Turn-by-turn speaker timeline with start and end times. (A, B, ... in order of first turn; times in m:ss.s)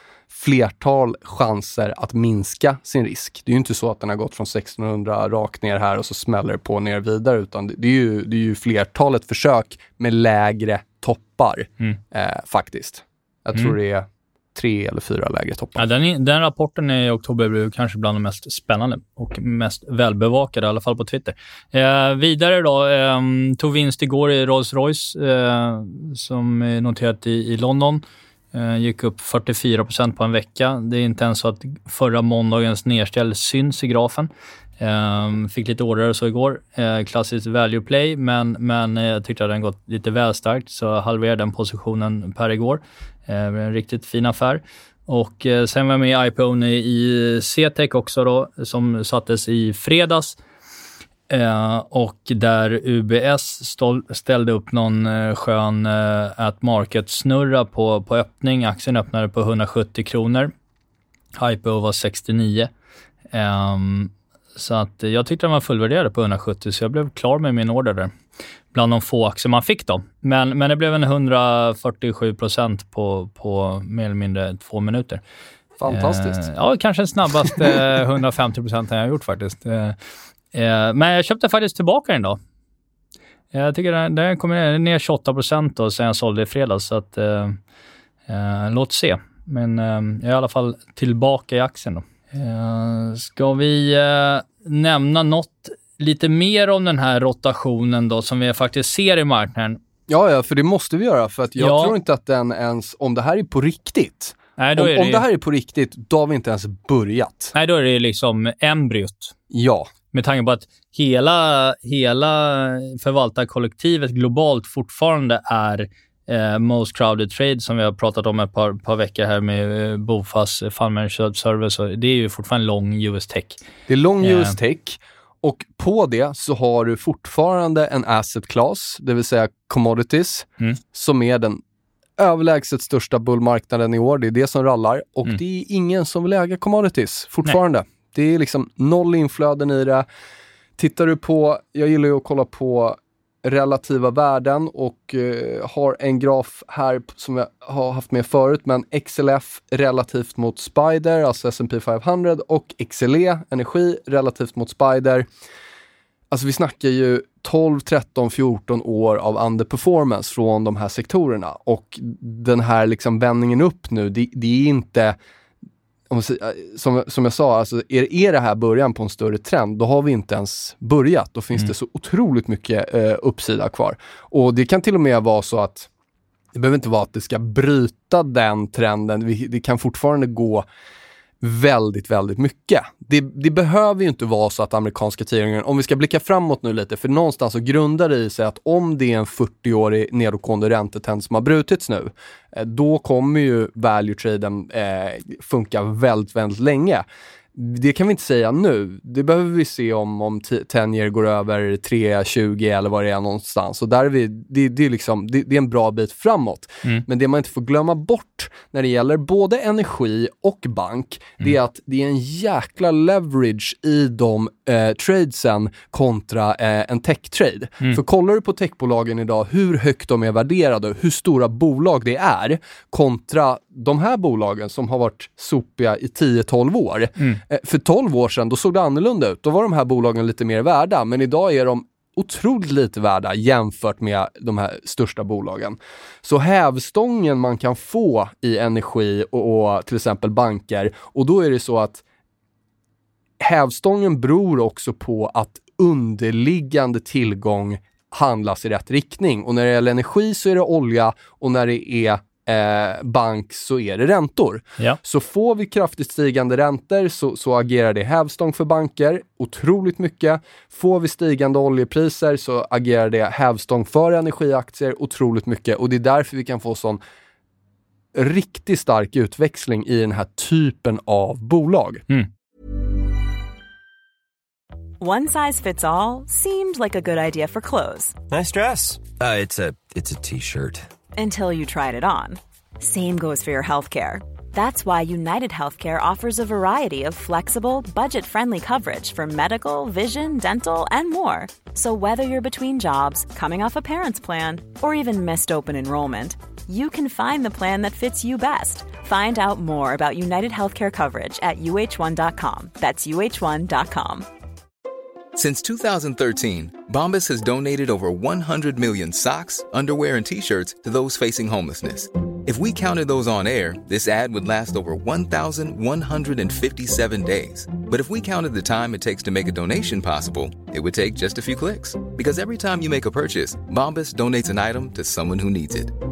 0:00.3-0:15.8 A
0:15.8-0:50.4 B
0:51.3-1:00.5 B
1:01.4-1:02.7 B
1:03.3-1:08.1 B
1:08.7-1:15.2 B
1:15.8-1:16.5 A
1:15.9-1:20.0 B
1:20.5-1:22.4 B
1:23.5-1:27.6 B
1:28.3-1:39.8 B
1:40.1-1:47.5 A
1:41.6-1:42.0 B
1:44.6-1:45.2 B
1:47.5-1:49.3 B
1:49.5-1:49.9 A
1:50.1-2:03.6 B
2:03.9-2:11.6 A
2:04.2-2:04.6 B
2:12.2-2:20.1 A
2:20.8-2:35.3 A
2:36.3-2:45.2 A
2:46.1-2:55.9 A
2:56.5-3:00.6 A
3:01.4-4:02.0 A
4:03.4-4:27.0 A
4:28.1-4:32.0 A
4:35.0-4:38.2 C
4:38.3-4:40.9 D
4:41.2-5:04.3 C
5:05.4-5:26.0 E